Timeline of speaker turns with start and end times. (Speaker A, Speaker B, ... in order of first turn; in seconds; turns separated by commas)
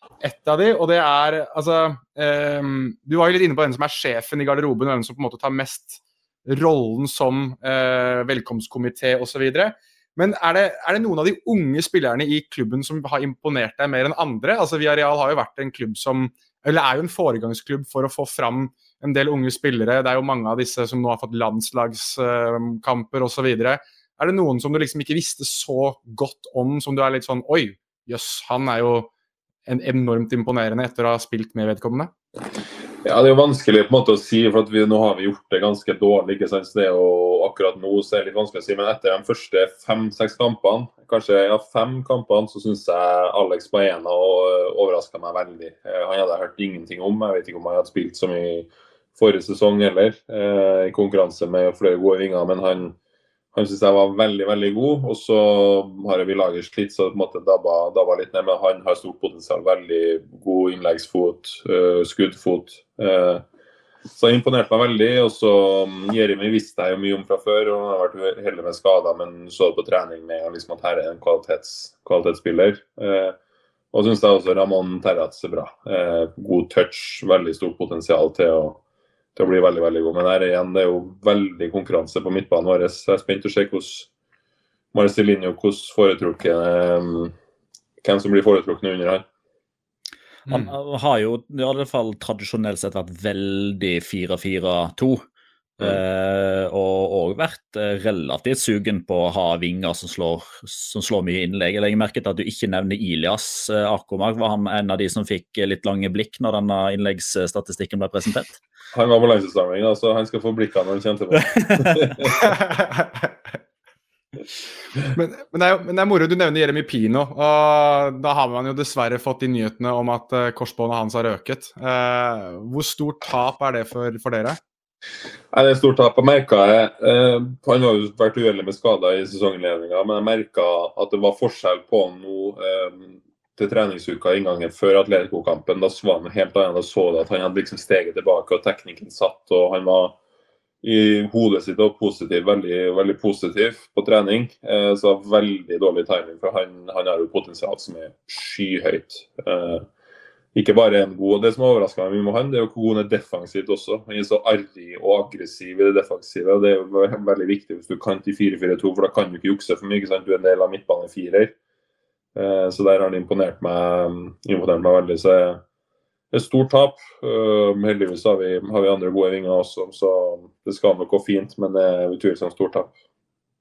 Speaker A: 0.2-29.1, Speaker A: 29.7-32.1, Speaker B: 33.0-53.0, Speaker B: 53.5-63.4, Speaker B: 64.1-73.4, Speaker B: 73.9-78.8, Speaker B: 79.4-84.1, Speaker B: 84.9-87.3, Speaker B: 88.0-89.3, Speaker A: 90.5-90.7, Speaker C: 90.5-95.2, Speaker C: 95.8-108.6, Speaker B: 108.9-112.3, Speaker C: 111.4-112.0, Speaker A: 112.4-113.3, Speaker A: 115.1-124.6, Speaker B: 125.5-140.2, Speaker B: 140.8-149.9, Speaker B: 150.5-161.5, Speaker B: 162.3-165.6, Speaker B: 166.3-172.9